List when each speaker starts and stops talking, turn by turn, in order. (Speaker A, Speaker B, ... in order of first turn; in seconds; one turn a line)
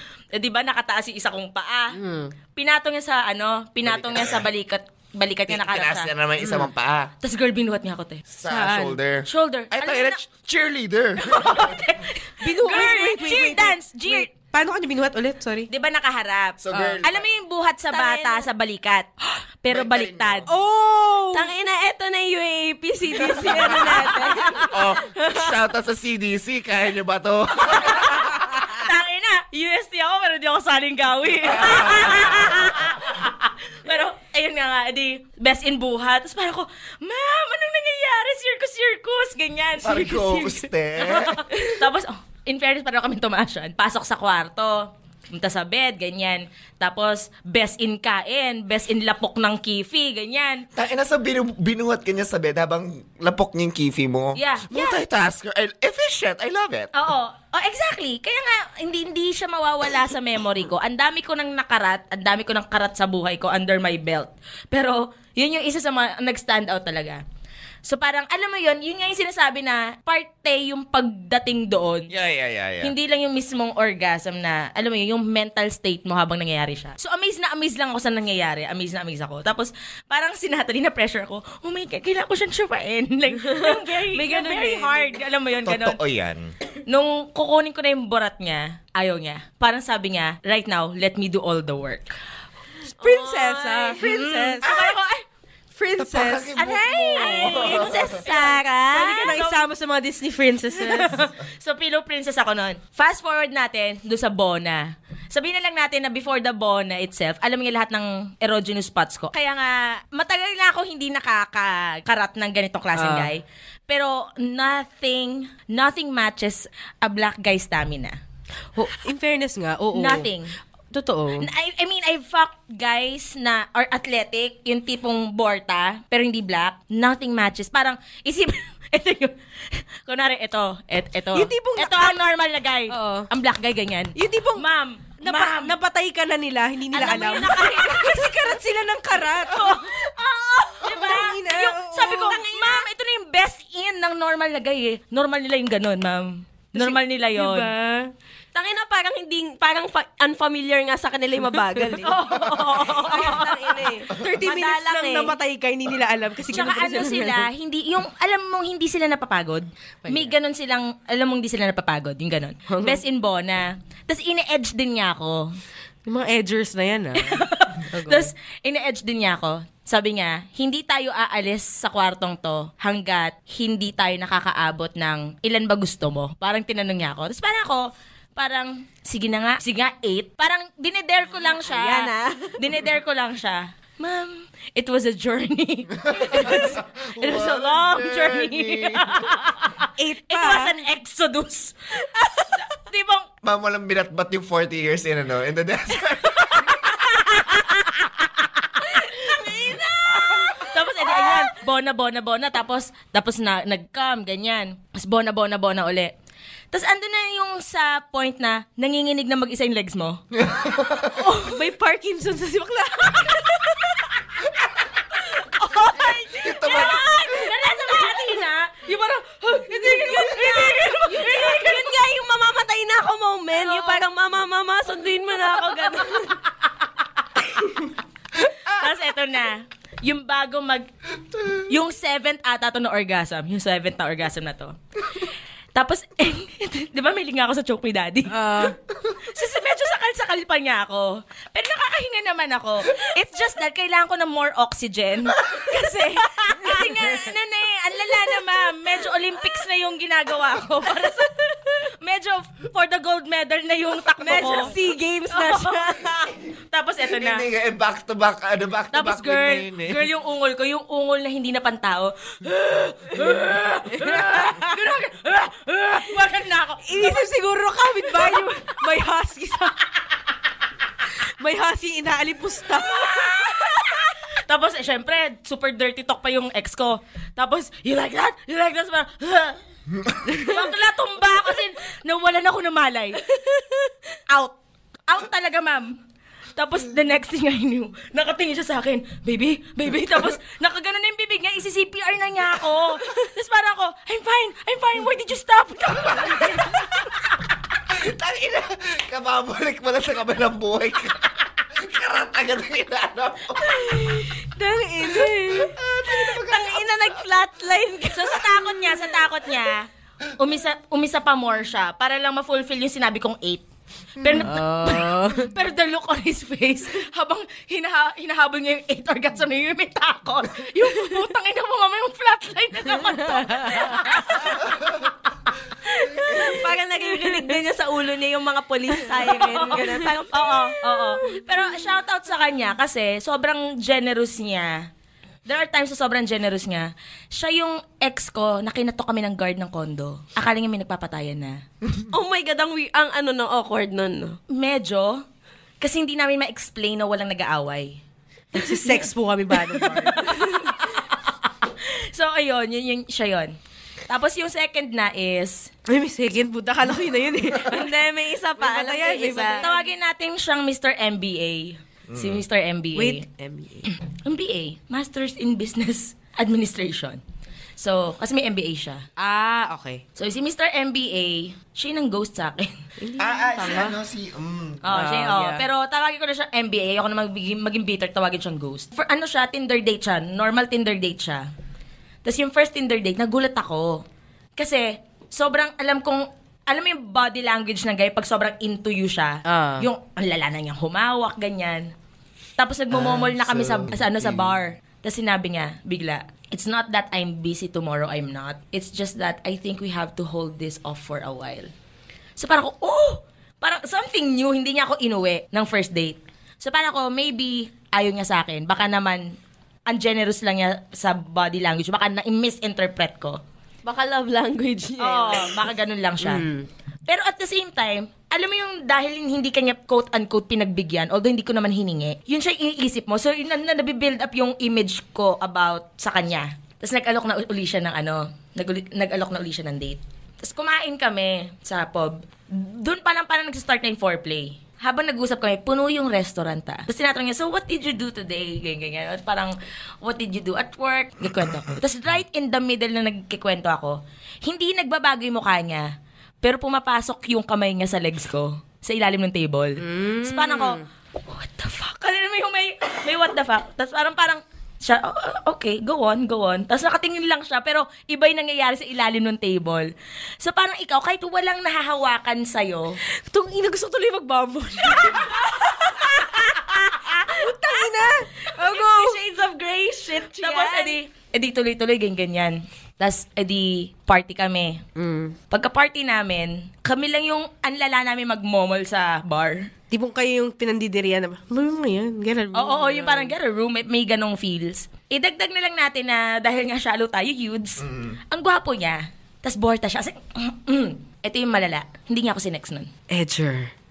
Speaker A: 0.3-1.9
Speaker B: 1.9-2.3
Speaker A: 2.5-6.1
Speaker C: 3.8-4.4
Speaker C: 5.5-7.1
Speaker A: 7.2-8.2
Speaker C: 8.3-11.9
Speaker B: 8.4-9.0
Speaker A: 9.2-10.2
Speaker A: 11.2-14.3
Speaker B: 12.4-15.7
Speaker A: 15.7-19.1
Speaker C: 16.6-17.2
Speaker B: 16.7-17.0
Speaker D: 17.9-18.5
Speaker A: 19.6-20.5
Speaker C: 19.7-20.5
Speaker B: 20.5-21.5
Speaker D: 21.3-24.8
Speaker B: 23.3-23.9
Speaker C: 24.6-28.5
Speaker A: 27.8-50.6
Speaker C: 31.4-32.9
Speaker C: 39.8-41.4
Speaker C: 50.7-56.9
Speaker A: 54.4-55.0
Speaker A: 56.9-67.2
Speaker A: 67.8-72.1
Speaker C: 72.1-72.9
Speaker A: 72.8-86.0
Speaker B: 83.5-85.2
Speaker C: 85.6-86.5
Speaker A: 86.9-92.1
Speaker B: 93.0-94.7
Speaker D: 93.0-94.0
Speaker A: 94.0-95.2
Speaker B: 95.7-96.5
Speaker C: 96.0-98.2
Speaker A: 96.6-99.7
Speaker D: 97.1-99.3
Speaker B: 98.9-101.1
Speaker A: 100.9-118.2
Speaker B: 113.0-113.3
Speaker B: 118.7-120.3
Speaker A: 119.9-120.5
Speaker B: 120.9-121.5
Speaker A: 121.4-135.7
Speaker B: 131.3-132.2
Speaker B: 132.9-133.3
Speaker B: 134.2-134.6
Speaker B: 135.2-139.8
Speaker A: 136.9-138.6
Speaker D: 137.2-137.6
Speaker A: 139.5-147.7
Speaker B: 140.8-142.8
Speaker B: 146.7-148.1
Speaker D: 148.5-152.2
Speaker A: 152.0-153.8
Speaker D: 152.8-155.3
Speaker B: 154.2-157.5
Speaker A: 156.5-165.5
Speaker B: 160.0-160.3
Speaker B: 162.7-163.0
Speaker B: 166.1-168.3
Speaker A: 167.2-191.7
Speaker D: 181.6-182.6
Speaker C: 186.0-189.3
Speaker B: 190.0-190.7
Speaker A: 192.6-193.3
Speaker C: 193.4-197.0
Speaker A: 196.6-198.2
Speaker A: 198.8-199.3
Speaker C: 199.4-199.7
Speaker A: 200.6-206.1
Speaker A: 206.7-210.2
Speaker C: 210.3-211.2
Speaker A: 211.2-211.5
Speaker B: 211.3-214.0
Speaker A: 215.2-218.9
Speaker C: 216.3-217.5
Speaker B: 218.8-221.8
Speaker A: 219.5-221.9
Speaker D: 221.1-226.3
Speaker A: 223.6-224.0
Speaker A: 228.7-230.9
Speaker A: 231.7-238.6
Speaker B: 238.3-238.8
Speaker A: 239.2-254.7
Speaker B: 254.2-256.0
Speaker A: 255.3-256.1
Speaker C: 256.2-256.5
Speaker A: 256.7-257.4
Speaker C: 257.0-260.1
Speaker A: 258.9-267.2
Speaker B: 263.9-264.7
Speaker B: 266.9-269.9
Speaker B: 271.4-274.1
Speaker A: 272.8-279.6
Speaker C: 279.9-280.3
Speaker A: 280.3-283.2
Speaker A: 284.3-284.6
Speaker A: 285.1-286.0
Speaker A: 286.6-297.1
Speaker C: 295.9-296.8
Speaker C: 297.9-304.2
Speaker B: 303.8-305.8
Speaker C: 305.2-307.2
Speaker D: 306.1-308.7
Speaker A: 308.1-309.9
Speaker A: 310.4-313.6
Speaker A: 314.2-325.0
Speaker B: 314.4-315.5
Speaker B: 323.1-323.9
Speaker A: 326.0-326.6
Speaker D: 326.1-331.0
Speaker A: 329.3-334.8
Speaker A: 335.4-341.6
Speaker D: 342.1-344.4
Speaker A: 344.5-345.2
Speaker A: 345.8-348.0
Speaker B: 348.5-350.4
Speaker A: 348.6-349.0
Speaker A: 349.7-353.5
Speaker A: 354.1-355.7
Speaker B: 355.9-358.0
Speaker D: 357.6-359.6
Speaker B: 358.6-359.9
Speaker A: 359.6-363.2
Speaker C: 362.1-362.4
Speaker B: 362.9-363.9
Speaker A: 363.9-367.2
Speaker A: 367.8-369.0
Speaker B: 369.2-370.0
Speaker A: 370.2-372.8
Speaker B: 373.0-373.9
Speaker C: 373.2-375.1
Speaker A: 374.8-381.4
Speaker B: 374.9-375.6
Speaker A: 382.2-384.0
Speaker A: 384.6-391.9
Speaker B: 389.4-389.9
Speaker A: 392.6-401.7
Speaker C: 392.9-394.6
Speaker A: 402.4-409.3
Speaker A: 409.9-413.4
Speaker D: 413.9-415.7
Speaker A: 415.0-416.4
Speaker B: 416.2-416.7
Speaker A: 417.1-445.9
Speaker A: 446.4-459.9
Speaker B: 449.8-450.8
Speaker A: 460.4-463.0
Speaker B: 463.3-466.6
Speaker A: 464.9-467.3
Speaker B: 467.3-469.1
Speaker D: 468.6-471.0
Speaker A: 470.3-474.8
Speaker B: 474.9-475.3
Speaker A: 475.5-479.7
Speaker B: 479.9-483.3
Speaker A: 482.5-492.9
Speaker C: 487.8-488.2
Speaker B: 493.1-493.7